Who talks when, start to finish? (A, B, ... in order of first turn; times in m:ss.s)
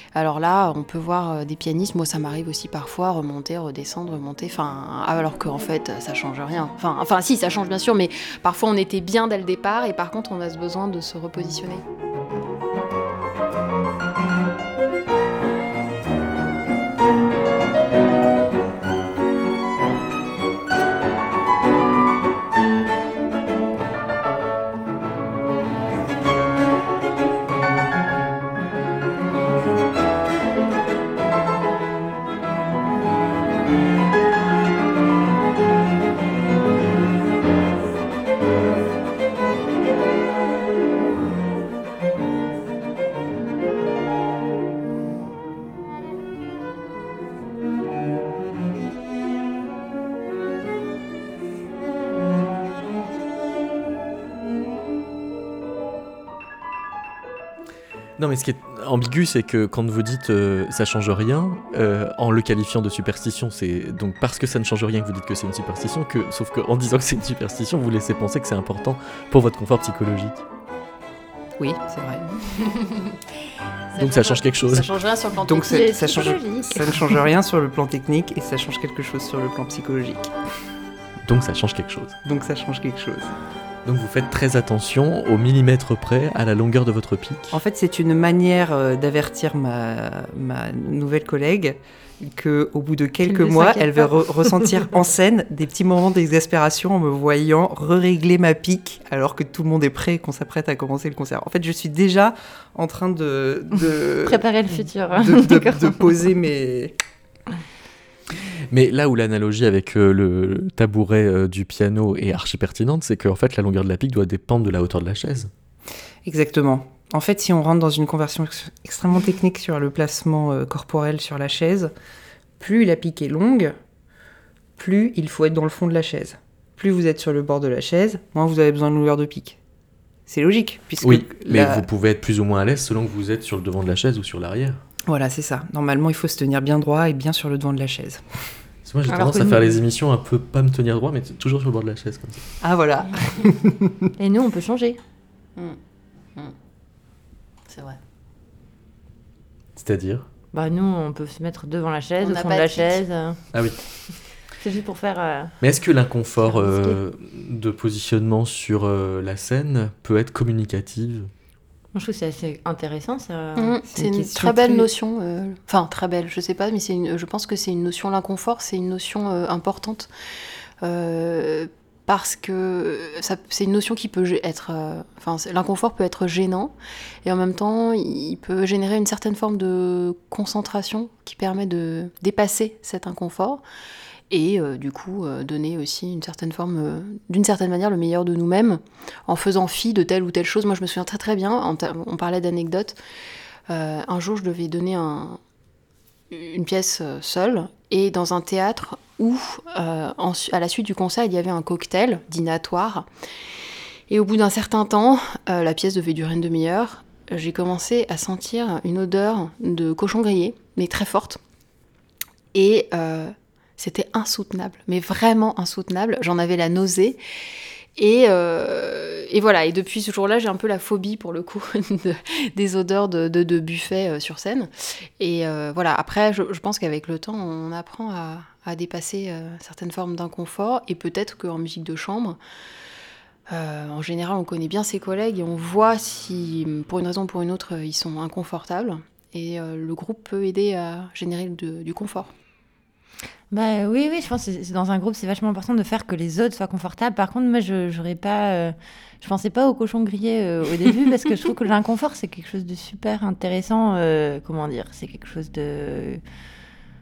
0:00.2-0:11.8 A
0:58.2-1:10.4 B
1:11.6-1:12.3 C
1:12.4-1:13.2 A
1:13.9-1:16.3 A
1:14.0-1:14.9 B
1:15.5-1:20.3 C
1:15.7-1:17.1 D
1:21.2-1:22.2 B
1:22.2-1:23.4 C
1:23.8-1:27.6 B
1:27.5-1:44.4 C
1:33.2-1:34.8 D
1:44.2-1:46.0 D
1:45.2-1:47.0 C
1:48.7-1:55.5 B
1:56.2-2:01.9 C
2:02.6-2:03.8 C
2:04.8-2:09.6 C
2:10.3-2:11.9 C
2:11.0-2:14.8 B
2:15.1-2:18.2 C
2:18.8-2:22.4 B
2:19.1-2:19.8 D
2:22.6-2:23.9 C
2:24.2-2:25.0 D
2:27.7-2:28.0 A
2:29.8-2:30.3 B
2:30.5-2:33.4 D
2:32.2-2:33.0 A
2:33.5-2:33.8 B
2:34.6-2:35.5 D
2:35.6-2:41.3 B
2:36.4-2:37.0 D
2:41.9-2:43.8 D
2:43.6-2:50.1 A
2:43.9-2:44.9 C
2:50.8-3:03.6 A
3:04.3-3:13.0 A
3:13.7-3:15.4 A
3:16.3-3:23.1 A
3:24.1-3:31.4 A
3:32.5-3:37.2 A
3:38.0-3:52.4 A
3:53.5-4:02.3 A
4:03.5-4:16.2 D